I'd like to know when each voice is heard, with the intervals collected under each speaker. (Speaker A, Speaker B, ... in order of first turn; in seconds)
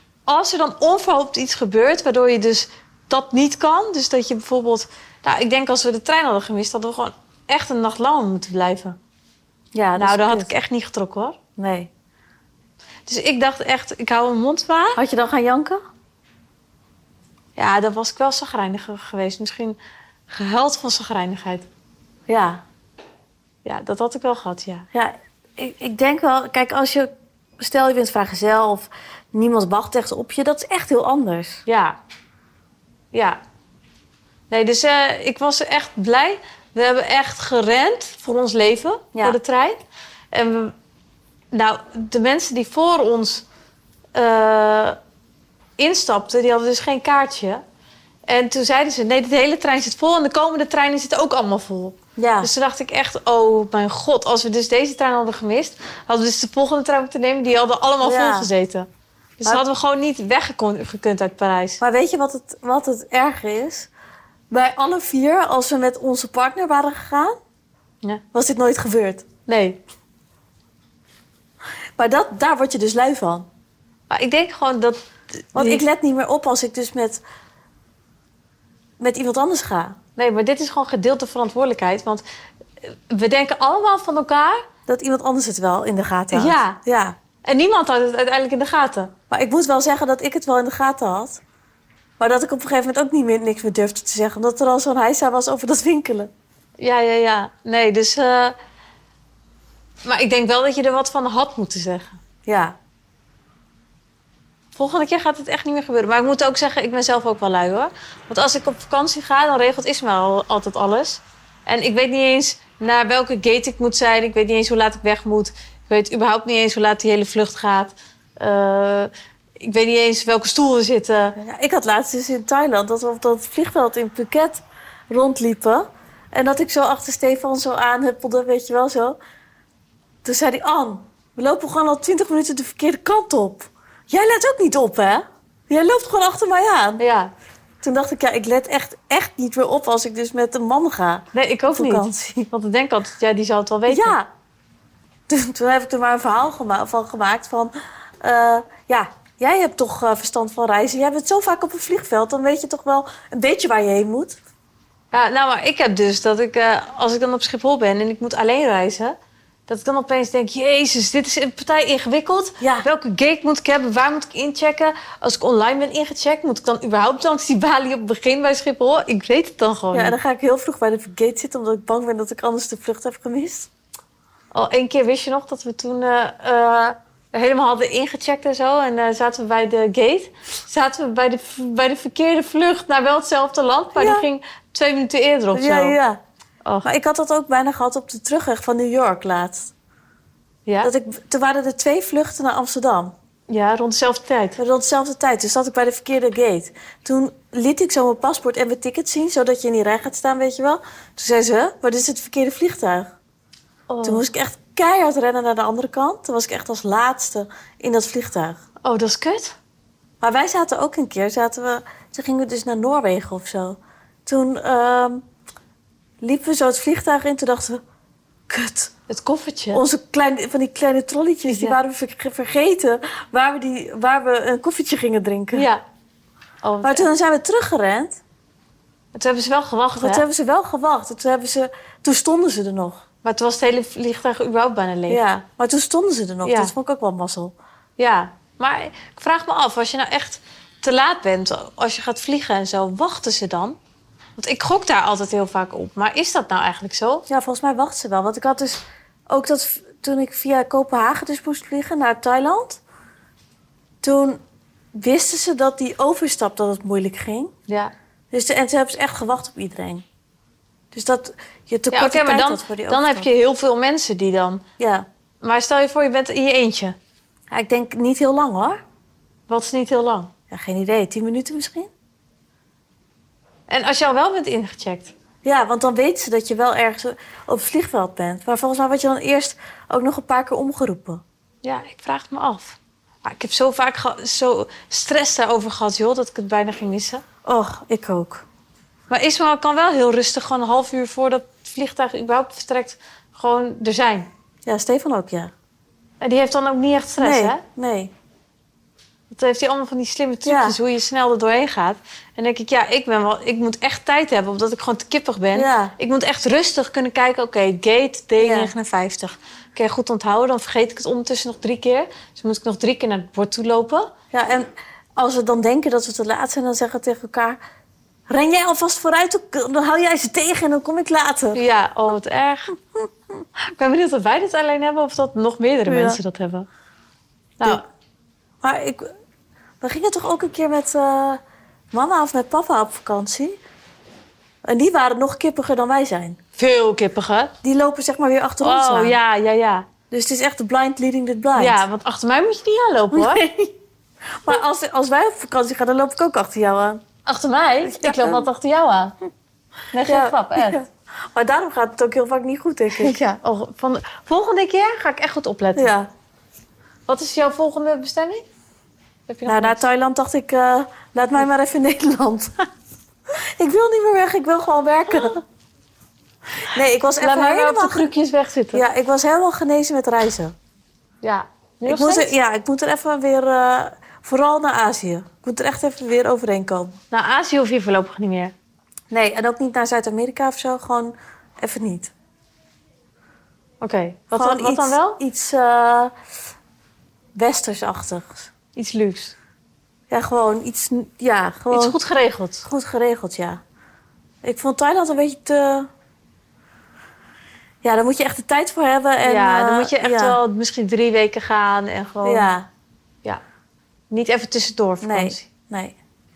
Speaker A: 0.3-9.0, 10.0-11.4, 13.1-15.0, 17.6-19.8, 20.3-21.7, 23.6-24.9, 31.7-32.0, 33.1-33.4, 34.5-39.8, 40.3-40.7, 41.5-43.5, 44.1-45.0, 45.8-47.6, 48.3-58.9, 59.4-61.8, 69.5-69.8, 74.1-75.8, 80.2-82.2, 82.8-84.7, 86.3-86.8, 87.4-89.1, 96.8-98.5, 100.0-102.2, 104.7-121.4, 137.0-137.3, 141.3-144.1, 155.1-159.1, 159.7-170.2, 174.5-186.0, 190.7-190.9, 193.5-194.6, 203.9-204.2, 208.8-209.6, 219.1-219.8, 221.5-221.8, 225.5-225.8, 226.6-227.1, 229.1-230.2, 233.2-235.2, 236.4-236.7, 238.0-243.8, 244.4-247.2, 257.7-257.9, 261.9-264.6, 265.4-266.9, 269.5-270.3, 273.7-275.1, 281.6-287.2, 289.1-294.3, 296.2-297.6, 299.3-314.1, 321.5-322.8, 323.6-326.6, 336.6-337.5, 338.6-339.9, 341.6-343.4, 347.2-349.1, 349.9-350.8, 352.9-355.9, 357.1-358.5, 359.3-359.8, 367.2-368.8, 371.2-372.3, 377.1-378.5, 383.8-385.2, 388.7-389.3, 391.7-392.6, 399.2-402.5, 404.1-405.5
Speaker B: 9.7-10.5, 11.6-11.9, 14.9-15.8, 22.3-22.6, 24.9-31.6, 52.1-52.5, 58.0-58.5, 61.8-63.9, 64.5-67.3, 68.3-69.2, 72.0-73.5, 75.5-77.2, 79.0-80.0, 84.9-87.2, 89.3-91.4, 92.2-96.3, 102.5-102.8, 121.4-129.2, 130.2-137.0, 137.8-142.5, 143.9-144.3, 145.3-154.4, 162.6-162.8, 169.9-173.7, 183.9-184.2, 185.5-186.2, 186.8-189.7, 190.8-193.1, 194.6-203.1, 204.0-208.6, 210.2-215.2, 216.2-217.8, 218.5-218.9, 219.7-225.7, 226.8-228.2, 229.9-233.0, 235.1-237.5, 247.3-252.8, 254.0-254.4, 254.9-257.5, 258.3-260.0, 260.9-263.3, 264.8-265.1, 267.5-268.8, 270.5-271.9, 275.4-281.2, 287.4-288.4, 294.6-295.5, 297.2-298.1, 300.4-300.8, 305.5-305.9, 308.4-308.7, 314.3-317.6, 318.3-321.6, 325.9-326.2, 328.6-329.1, 329.8-331.4, 331.9-333.6, 334.6-336.4, 337.6-339.2, 340.1-341.8, 343.1-343.7, 344.4-347.0, 347.8-348.4, 350.0-353.2, 355.8-356.1, 359.5-362.6, 363.3-365.4, 366.7-368.1, 368.7-370.5, 371.9-377.0, 379.1-382.1, 384.3-386.1, 387.3-388.5, 390.1-391.9, 392.6-393.6, 394.4-395.9, 397.8-400.4, 402.2-402.7, 405.0-405.9